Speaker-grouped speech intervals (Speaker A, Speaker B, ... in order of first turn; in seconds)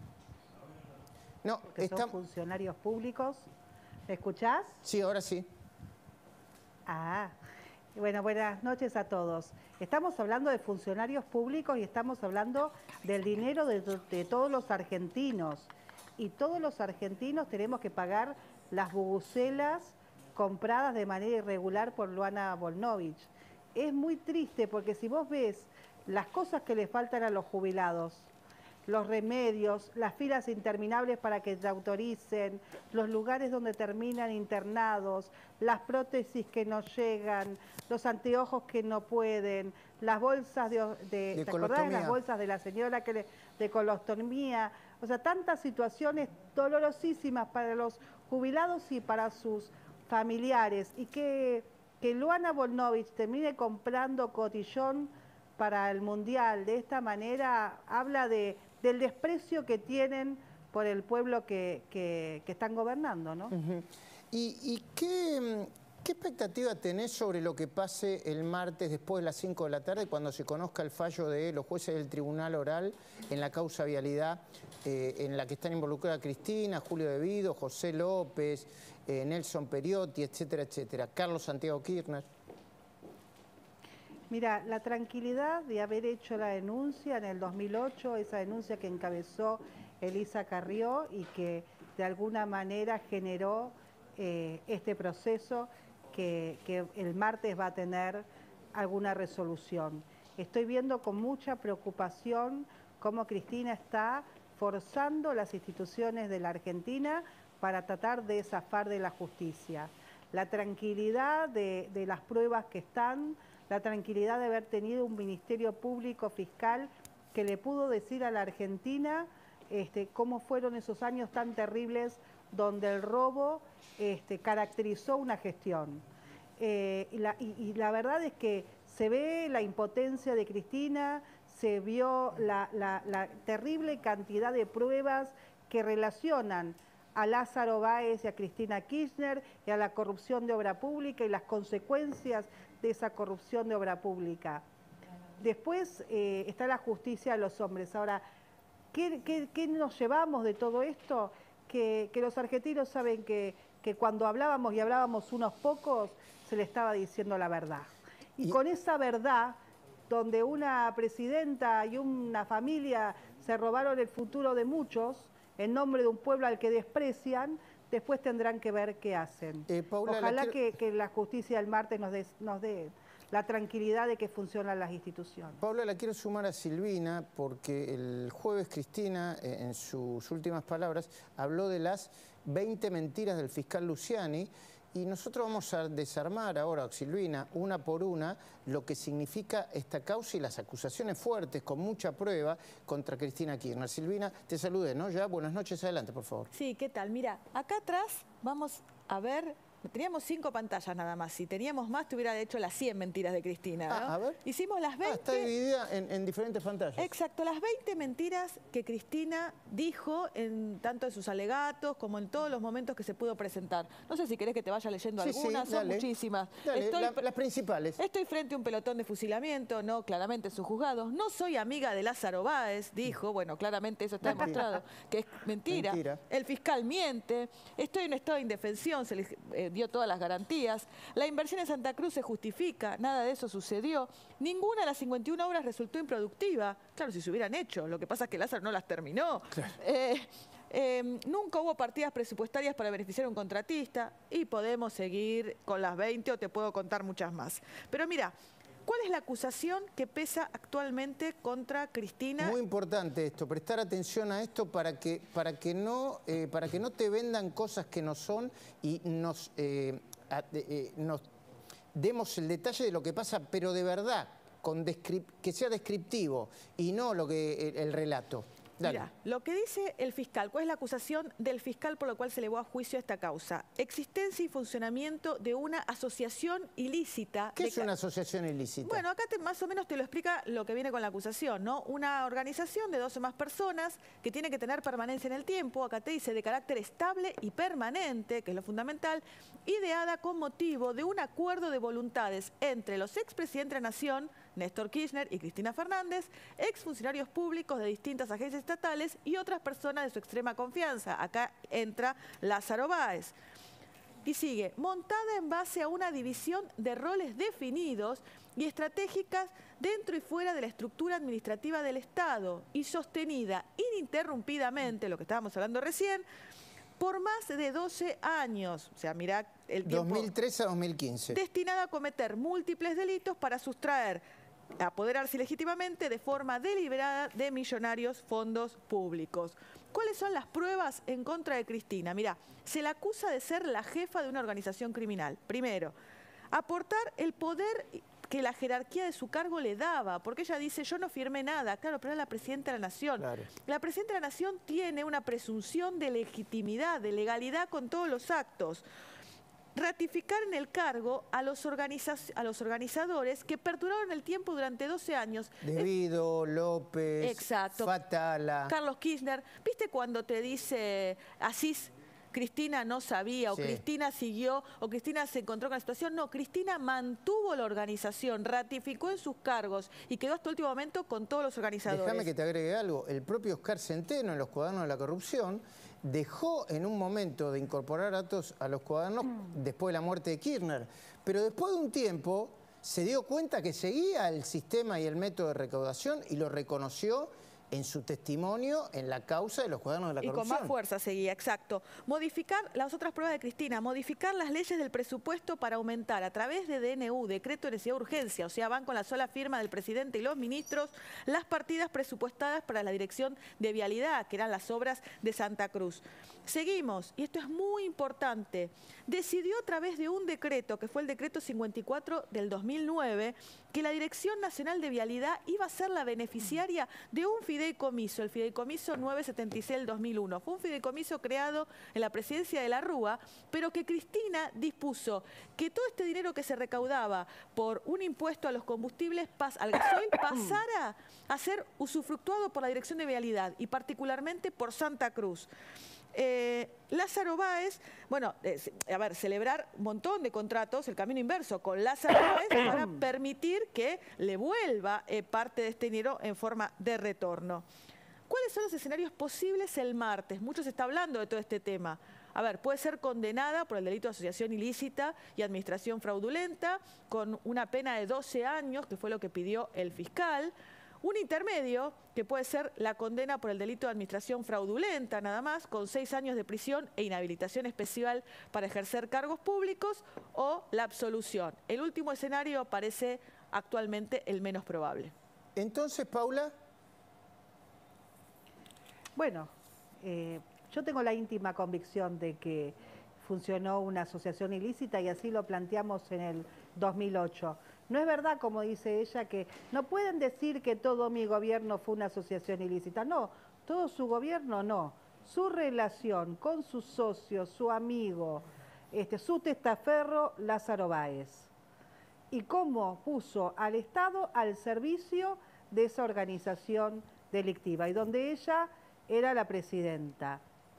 Speaker A: 1.4-2.1, 4.8-5.5, 41.3-42.2, 63.5-82.2, 169.7-170.6, 175.6-196.5, 203.9-204.4, 205.0-207.1, 215.2-216.1, 216.6-218.0, 224.2-224.6, 225.7-226.2, 252.4-261.2, 261.9-269.1, 277.6-279.0, 319.8-321.4, 343.2-343.5, 355.6-358.8, 363.5-363.8, 371.9-390.7, 475.6-476.5
Speaker B: 1.7-3.5, 4.1-4.8, 6.9-7.3, 7.9-28.3, 28.9-63.5, 84.3-126.0, 126.6-144.6, 145.4-148.2, 148.9-159.6, 160.1-175.6, 479.2-479.5, 480.0-501.5, 502.3-510.4
Speaker C: 196.5-205.5, 207.0-217.2, 218.0-248.3, 248.9-252.6, 268.8-277.9, 278.8-303.3, 304.2-316.2, 317.0-320.3, 321.3-324.2, 324.8-335.9, 336.5-348.8, 349.8-355.9, 357.2-357.9, 358.7-372.3, 390.2-435.5, 436.1-447.6, 448.3-475.1